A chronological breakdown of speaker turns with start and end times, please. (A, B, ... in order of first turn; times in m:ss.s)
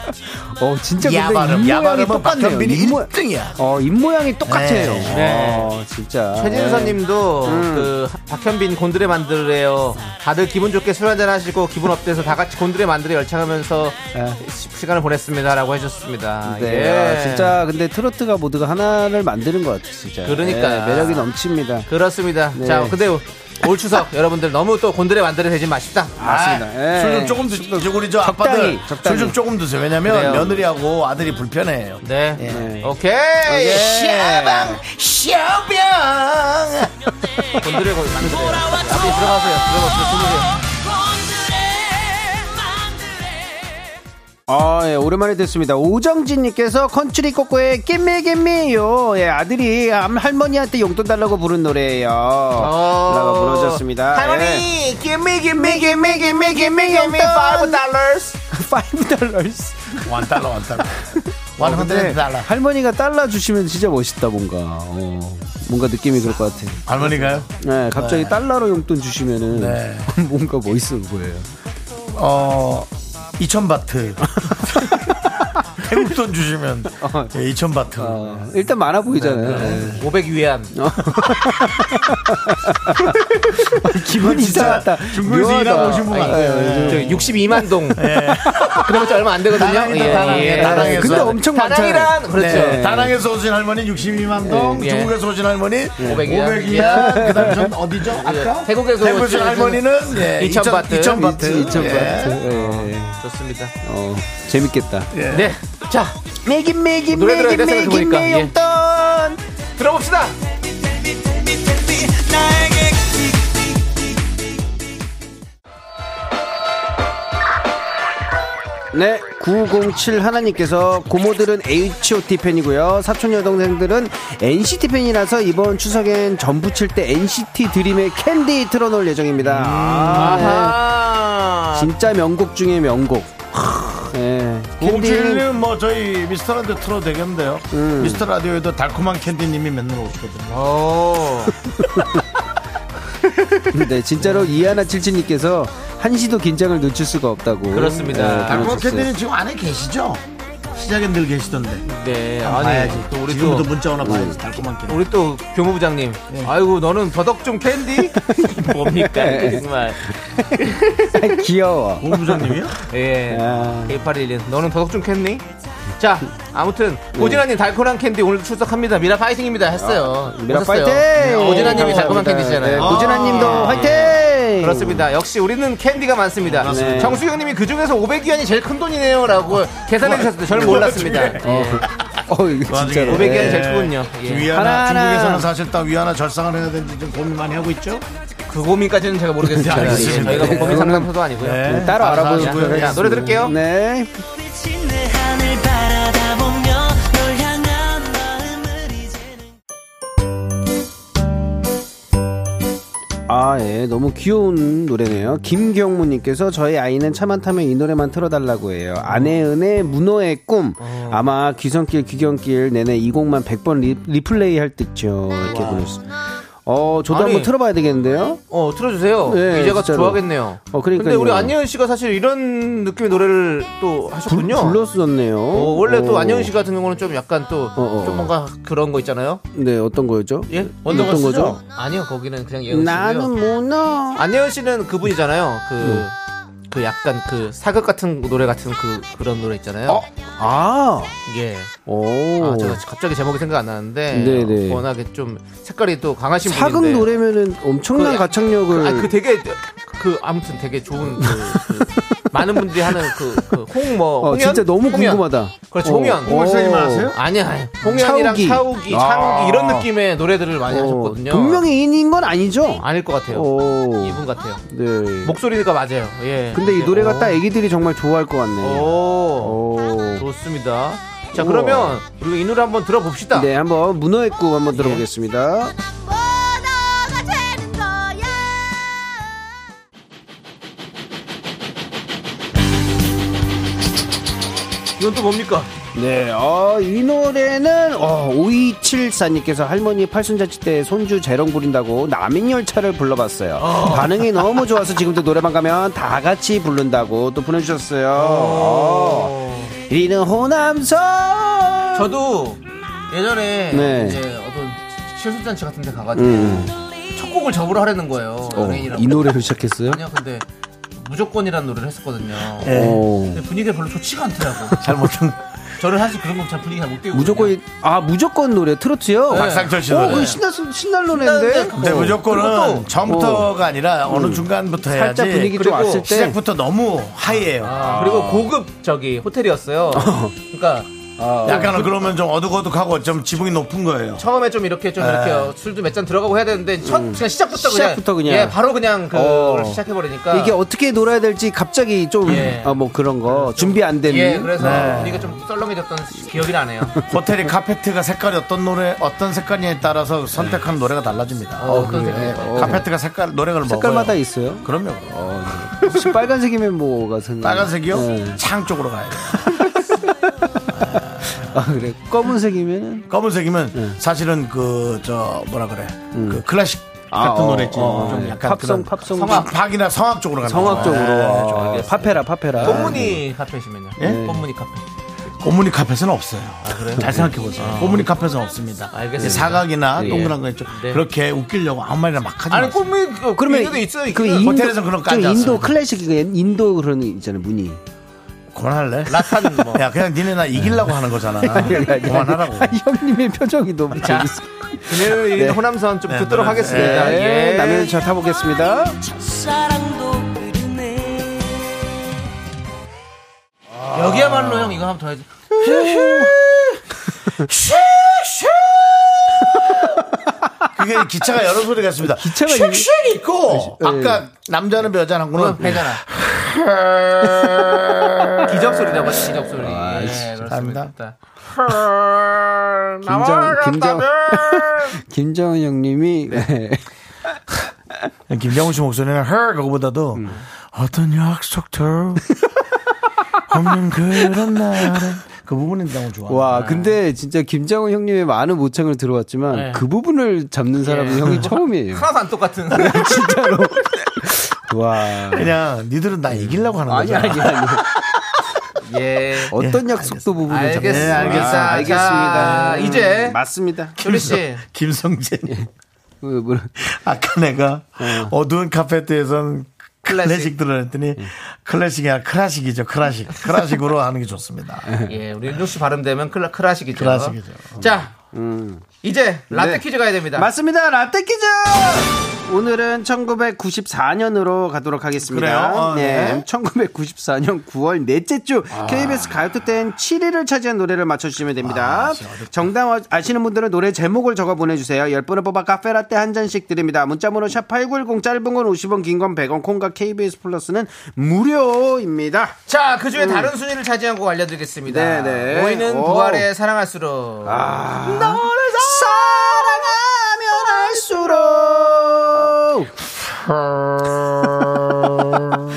0:00.3-0:07.9 A
0:01.0-0:03.6 B
0:04.4-0:05.2 B
0:05.0-0:05.7 C
0:06.3-0:17.6 C
0:16.4-0:21.9 A
0:20.2-0:21.3 C
0:21.9-0:26.2 C
0:22.5-0:23.0 A
0:26.2-0:29.4 A
0:26.2-0:32.7 B
0:30.0-0:30.6 C
0:32.0-0:34.2 C
0:32.4-0:32.9 A
0:33.4-0:34.8 A
0:33.6-0:36.9 B
0:37.4-0:37.7 A
0:37.6-0:40.5 C
0:38.5-0:43.4 D
0:44.5-0:54.7 A
0:52.6-0:58.4 C
0:55.5-0:57.8 A
0:58.5-1:00.4 A
1:00.0-1:01.0 B
1:01.0-1:11.5 A
1:01.6-1:02.5 B
1:06.8-1:08.4 B
1:09.5-1:10.1 B
1:12.1-1:18.4 B
1:14.4-1:15.1 A
1:17.0-1:17.3 A
1:18.0-1:20.1 A
1:19.2-1:20.7 C
1:19.5-1:19.8 B
1:20.7-1:28.9 A
1:23.7-1:27.2 B
1:25.6-1:32.8 C
1:27.9-1:31.4 B
1:30.0-1:33.2 A
1:32.4-1:42.4 B
1:34.4-1:34.8 A
1:34.7-1:35.1 C
1:36.0-1:37.6 C
1:36.8-1:37.7 A
1:38.1-1:43.7 C
1:41.1-1:43.2 A
1:43.8-1:45.1 A
1:45.1-1:45.5 B
1:45.3-1:46.1 C
1:46.4-1:49.4 A
1:47.1-1:48.5 C
1:49.8-1:50.4 C
1:51.6-1:53.3 D
1:58.9-2:10.8 A
2:09.6-2:11.9 C
2:11.7-2:15.4 A
2:14.8-2:20.6 B
2:17.7-2:18.2 A
2:20.5-2:21.6 C
2:21.6-2:22.2 A
2:23.3-2:23.7 C
2:23.7-2:29.1 A
2:27.7-2:28.7 C
2:28.4-2:31.8 B
2:31.8-2:33.7 C
2:32.4-2:35.0 B
2:34.0-2:34.4 A
2:34.9-2:41.4 C
2:38.0-2:42.6 A
2:42.0-2:42.8 B
2:42.8-2:45.4 C
2:43.3-2:44.0 A
2:46.0-3:01.8 C
2:47.1-2:47.4 A
2:49.7-2:55.1 A
2:51.2-2:52.0 B
2:52.8-2:53.9 B
2:56.4-2:57.2 B
2:56.6-2:57.2 A
3:00.0-3:01.4 B
3:01.4-3:03.7 A
3:02.7-3:08.0 B
3:03.1-3:04.5 C
3:04.5-3:05.5 A
3:08.5-3:13.6 C
3:09.5-3:14.2 A
3:09.5-3:12.9 B
3:14.3-3:19.5 D
3:23.3-3:38.4 A
3:30.8-3:31.3 C
3:35.4-3:35.9 C
3:37.1-3:37.5 C
3:38.5-3:44.8 C
3:39.2-3:41.6 A
3:44.3-3:46.5 A
3:45.5-3:49.4 C
3:47.8-3:48.3 A
3:49.5-3:51.6 A
3:50.5-3:53.3 C
3:50.8-3:51.6 B
3:52.7-3:54.2 A
3:54.1-3:56.1 C
3:55.8-3:56.0 A
3:56.7-4:00.0 C
3:59.9-4:01.1 A
4:01.2-4:01.7 C
4:01.8-4:02.8 A
4:02.4-4:07.1 C
4:04.1-4:04.8 A
4:06.4-4:09.1 A
4:07.9-4:16.4 C
4:11.2-4:13.6 A
4:14.2-4:17.1 A
4:16.2-4:17.2 B
4:17.1-4:21.6 C
4:17.8-4:19.9 A
4:20.7-4:25.4 A
4:22.8-4:24.6 C
4:25.2-4:27.4 C
4:26.5-4:30.2 A
4:28.6-4:29.6 C
4:30.2-4:33.5 C
4:31.3-4:32.0 A
4:33.3-4:35.8 A
4:34.7-4:35.0 C
4:36.1-4:38.8 D
4:45.0-4:45.7 C
4:45.9-4:59.4 A
4:53.6-4:54.2 C
4:58.1-4:59.7 C
4:59.9-5:02.1 A
5:01.9-5:10.4 C
5:03.7-5:04.2 A
5:06.1-5:06.7 A
5:08.5-5:10.0 A
5:11.0-5:14.8 C
5:12.6-5:13.0 B
5:12.6-5:13.4 A
5:14.8-5:15.5 B
5:15.8-5:17.6 C
5:17.1-5:22.3 A
5:19.3-5:20.4 C
5:19.3-5:20.3 B
5:21.0-5:22.9 C
5:21.7-5:28.5 B
5:23.0-5:23.5 A
5:24.1-5:26.4 A
5:25.5-5:26.1 C
5:27.3-5:30.9 C
5:29.9-5:30.4 A
5:31.2-5:31.9 A
5:31.4-5:32.0 C
5:31.4-5:34.2 B
5:34.2-5:40.6 C
5:35.0-5:35.5 B
5:36.8-5:38.6 A
5:39.1-5:45.1 A
5:42.2-5:47.0 C
5:42.2-5:42.6 B
5:44.6-5:45.4 B
5:47.1-5:55.9 B
5:51.6-5:52.9 C
5:51.7-5:52.8 A
5:53.6-5:58.4 A
5:57.4-5:59.7 B
5:59.3-5:59.9 A
6:00.7-6:01.6 B
6:01.2-6:03.1 A
6:03.1-6:12.0 B
6:06.1-6:06.4 A
6:07.1-6:09.5 A
6:09.1-6:09.5 C
6:10.4-6:13.2 A
6:10.5-6:14.8 C
6:12.6-6:13.1 B
6:14.0-6:14.5 A
6:15.4-6:22.9 B
6:16.6-6:18.1 C
6:18.9-6:21.0 C
6:19.2-6:20.3 A
6:22.5-6:24.5 C
6:23.3-6:27.8 A
6:24.4-6:25.8 B
6:28.5-6:32.8 B
6:29.1-6:29.9 C
6:31.4-6:35.6 A
6:34.0-6:38.0 C
6:36.1-6:37.2 B
6:36.7-6:39.0 A
6:39.0-6:41.7 D
6:43.9-6:45.3 C
6:43.9-6:44.5 A
6:45.6-6:46.3 A
6:45.6-6:50.2 B
6:49.5-6:50.4 A
6:50.7-6:58.6 B
6:52.0-6:52.9 A
6:53.5-6:54.2 A
6:55.3-6:56.0 C
6:58.4-7:05.0 C
6:59.6-7:00.4 A
7:00.4-7:00.9 B
7:03.0-7:07.3 A
7:08.3-7:12.2 B
7:13.5-7:16.7 B
7:16.3-7:22.1 A
7:16.5-7:17.0 C
7:19.5-7:19.8 C
7:20.8-7:23.3 C
7:22.7-7:25.5 A
7:25.2-7:28.3 B
7:26.3-7:27.8 A
7:28.8-7:29.6 C
7:29.5-7:34.0 A
7:29.6-7:30.2 B
7:30.5-7:33.4 C
7:30.8-7:32.4 B
7:34.0-7:34.6 C
7:34.0-7:35.6 B
7:36.2-7:36.7 A
7:36.8-7:44.9 B
7:38.0-7:38.3 A
7:40.1-7:40.5 C
7:44.9-7:45.1 A
7:45.0-7:48.1 C
7:46.9-7:47.8 B
7:48.3-7:48.8 A
7:49.0-7:50.5 C
7:49.5-8:12.6 A
7:55.2-7:56.4 B
7:58.7-7:59.4 B
8:01.6-8:02.7 B
8:12.7-8:19.6 C
8:13.1-8:13.5 A
8:14.8-8:16.5 A
8:17.4-8:22.9 A
8:23.5-8:25.1 B